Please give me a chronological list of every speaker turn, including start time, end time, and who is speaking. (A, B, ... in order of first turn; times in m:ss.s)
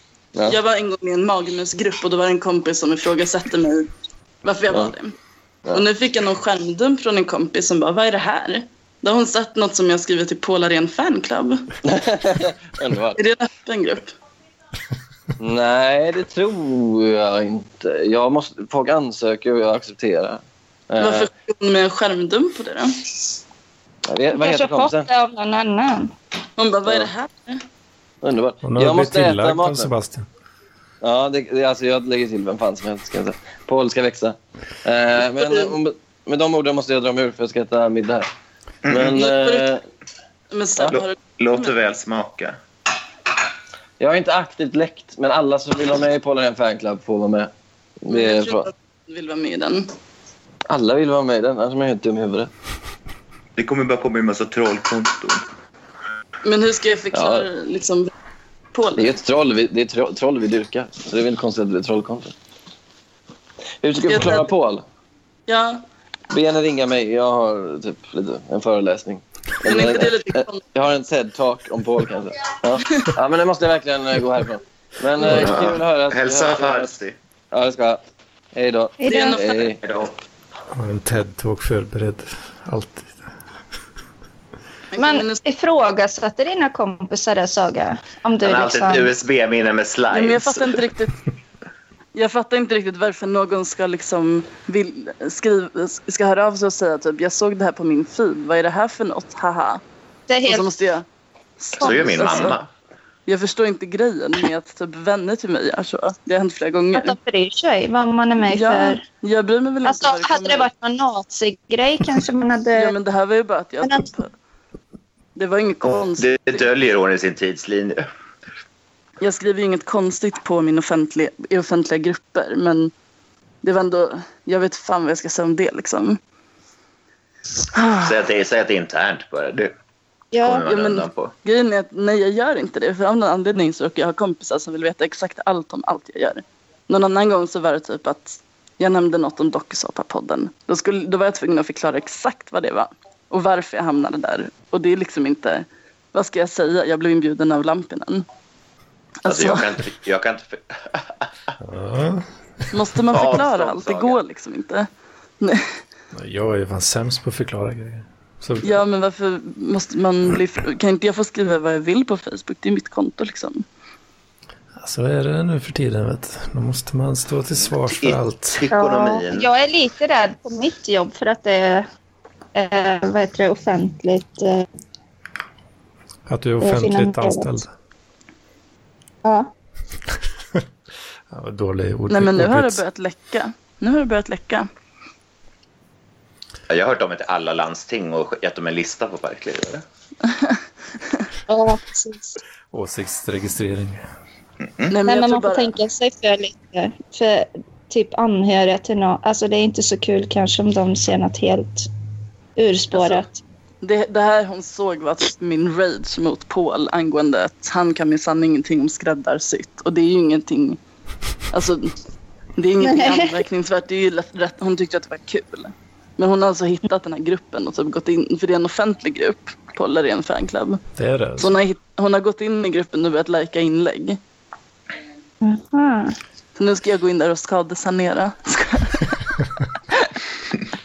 0:00.4-0:03.9 A
0:04.4-0:05.2 A
0:05.7-0:11.7 A
0:11.8-0:13.2 B
0:13.1-0:14.1 A
0:15.4-0:21.3 B
0:21.0-0:23.1 A
0:24.1-0:25.1 B
0:24.3-0:26.1 C
0:26.6-0:27.6 A
0:26.8-0:27.1 B
0:28.2-0:29.9 B
0:28.6-0:30.2 D
0:31.0-0:38.3 B
0:35.4-0:35.7 A
0:38.8-0:39.2 E
0:38.9-0:39.8 B
0:39.1-0:39.7 A
0:40.5-0:41.6 A
0:40.9-0:42.6 E
0:44.0-0:47.5 B
0:48.0-0:48.7 B
0:48.1-0:49.9 A
0:50.7-0:52.5 B
0:53.6-0:55.4 E
0:56.4-0:58.1 A
0:57.1-0:57.5 B
0:58.7-0:59.1 A
0:59.0-1:02.3 B
1:03.8-1:04.8 B
1:04.0-1:04.5 A
1:05.5-1:05.8 A
1:06.3-1:16.9 B
1:09.6-1:10.6 A
1:15.2-1:17.1 E
1:17.5-1:18.0 B
1:18.5-1:19.8 B
1:19.0-1:19.4 C
1:19.0-1:19.8 A
1:19.8-1:20.1 E
1:20.7-1:23.2 D
1:24.9-1:25.4 A
1:25.0-1:29.1 C
1:28.4-1:30.8 E
1:30.1-1:31.2 A
1:32.1-1:39.8 A
1:40.3-1:40.6 C
1:40.4-1:41.0 A
1:41.6-1:42.6 A
1:41.8-1:42.7 E
1:41.8-1:42.5 C
1:43.2-1:47.2 A
1:46.9-1:49.0 C
1:48.4-1:50.7 A
1:49.8-1:53.0 C
1:52.8-1:54.3 A
1:53.8-1:54.1 C
1:55.4-1:56.6 A
1:55.8-1:58.0 E
1:59.2-2:02.9 A
2:03.6-2:06.2 A
2:07.7-2:08.1 A
2:08.0-2:09.7 E
2:10.3-2:10.6 C
2:10.4-2:11.3 E
2:10.6-2:28.2 A
2:29.2-2:29.7 A
2:29.2-2:31.5 E
2:31.6-2:32.3 D
2:32.7-2:34.9 A
2:33.1-2:34.2 E
2:35.4-2:35.7 A
2:36.1-2:38.8 D
2:38.6-2:43.6 A
2:44.8-2:48.6 D
2:47.8-2:49.5 E
2:48.7-2:51.8 C
2:52.5-2:54.6 C
2:56.3-2:57.7 D
2:56.6-2:57.5 C
2:59.2-2:59.5 C
3:01.3-3:02.8 D
3:02.1-3:04.7 A
3:06.7-3:09.8 E
3:10.3-3:10.6 A
3:11.5-3:12.4 C
3:12.7-3:14.0 D
3:14.6-3:14.9 E
3:14.9-3:15.7 A
3:15.0-3:21.9 C
3:22.6-3:23.4 C
3:22.9-3:23.2 A
3:23.8-3:30.8 A
3:31.5-3:31.9 A
3:32.6-3:40.8 A
3:32.8-3:33.4 C
3:41.0-3:41.5 D
3:41.4-3:44.2 A
3:45.4-3:46.2 C
3:46.6-3:49.2 A